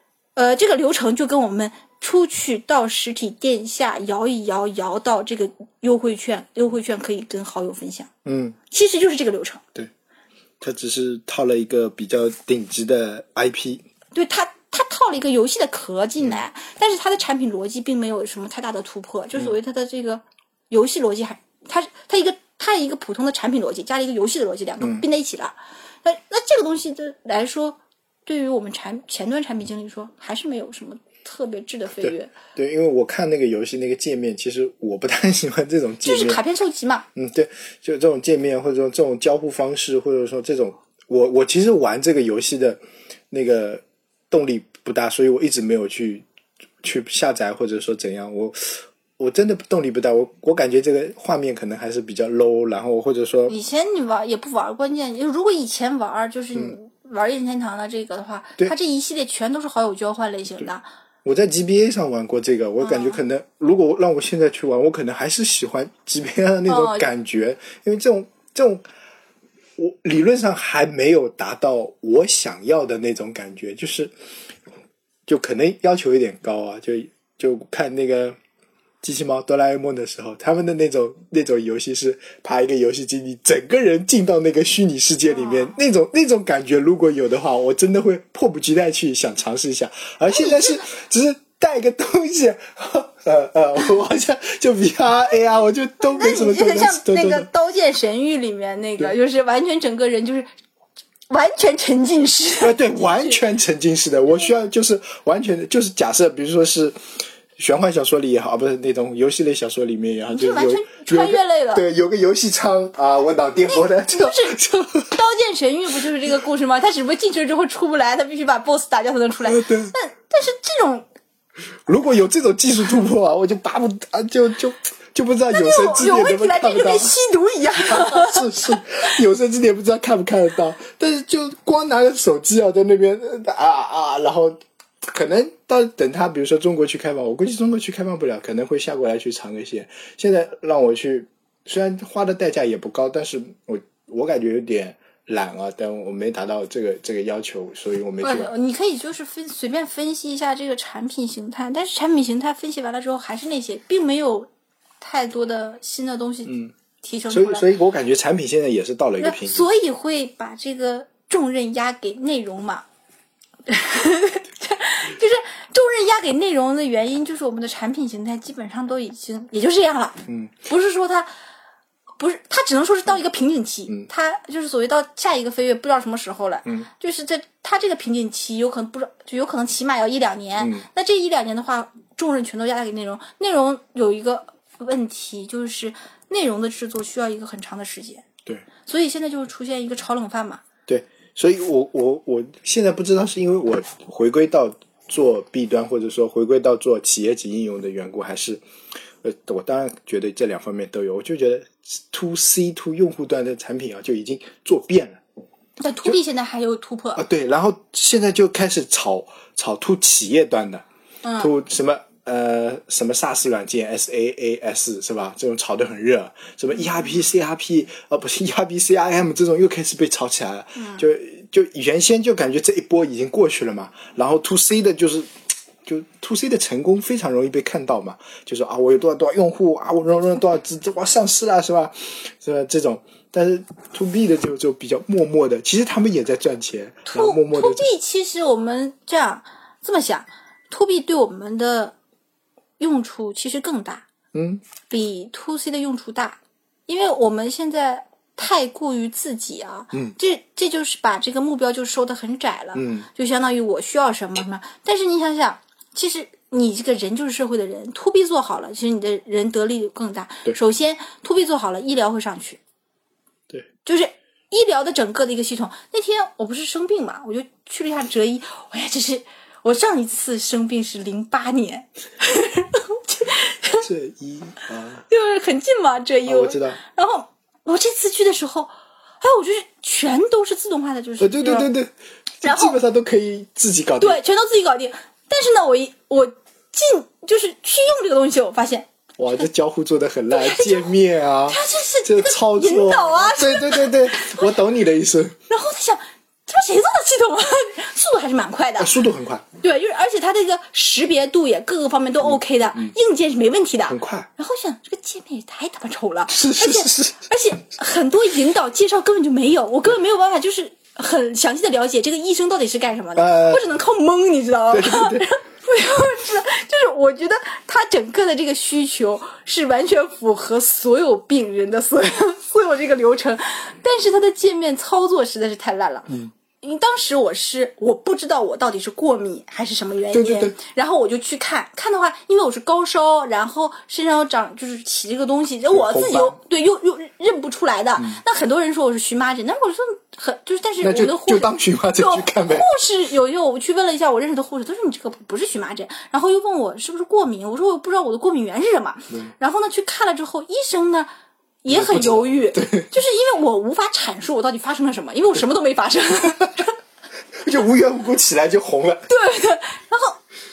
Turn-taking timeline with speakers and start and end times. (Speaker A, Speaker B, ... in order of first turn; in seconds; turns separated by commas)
Speaker A: 0.4-8.1, Speaker B: 8.3-8.6, Speaker A: 8.7-9.6, Speaker B: 10.6-13.8, Speaker A: 14.1-32.3, Speaker B: 24.8-25.1, Speaker B: 32.0-36.4, Speaker A: 36.0-37.1, Speaker B: 37.1-42.8, Speaker B: 43.3-46.2, Speaker B: 46.8-53.5, Speaker A: 53.5-60.9, Speaker B: 61.2-68.8, Speaker A: 62.8-63.2, Speaker A: 66.7-67.1, Speaker B: 69.8-74.1, Speaker B: 75.3-78.4, Speaker B: 79.0-97.5, Speaker A: 85.3-85.8, Speaker A: 90.3-90.8, Speaker A: 96.0-100.5, Speaker A: 101.3-103.4, Speaker B: 102.6-115.1, Speaker A: 110.3-111.8, Speaker A: 113.7-121.1, Speaker B: 119.5-119.9, Speaker B: 121.9-127.2, Speaker A: 125.5-128.8, Speaker B: 127.7-148.5, Speaker A: 148.2-154.5, Speaker A: 155.0-157.7, Speaker B: 156.5-156.7, Speaker B: 157.3-159.7, Speaker A: 159.2-162.8, Speaker A: 163.7-171.3, Speaker B: 170.3-170.5, Speaker A: 172.2-188.3, Speaker B: 180.6-180.9, Speaker A: 188.9-190.6, Speaker B: 190.9-198.6, Speaker B: 199.2-205.2, Speaker A: 205.8-207.2, Speaker B: 207.2-210.8, Speaker A: 211.2-211.5, Speaker B: 211.4-237.9, Speaker A: 220.8-221.0, Speaker A: 237.1-241.9, Speaker A: 242.8-244.1, Speaker B: 244.3-244.6, Speaker A: 244.9-262.6, Speaker B: 252.8-253.1, Speaker A: 263.9-273.9, Speaker B: 273.8-275.1, Speaker A: 275.1-281.7, Speaker B: 276.3-276.8, Speaker B: 281.2-284.2, Speaker A: 282.4-282.8, Speaker A: 284.0-289.4, Speaker B: 289.2-295.4, Speaker A: 290.3-290.9, Speaker A: 291.5-294.6, Speaker A: 295.5-298.9, Speaker B: 298.8-299.4, Speaker A: 299.6-326.1, Speaker B: 302.2-302.9, Speaker B: 303.9-304.3, Speaker B: 306.3-307.2, Speaker B: 313.2-313.7, Speaker B: 314.7-315.3, Speaker A: 326.6-351.1, Speaker B: 330.1-330.6, Speaker B: 335.7-336.4, Speaker B: 340.8-342.7, Speaker A: 351.6-356.7, Speaker B: 351.7-352.9, Speaker B: 357.4-359.1, Speaker A: 359.1-360.2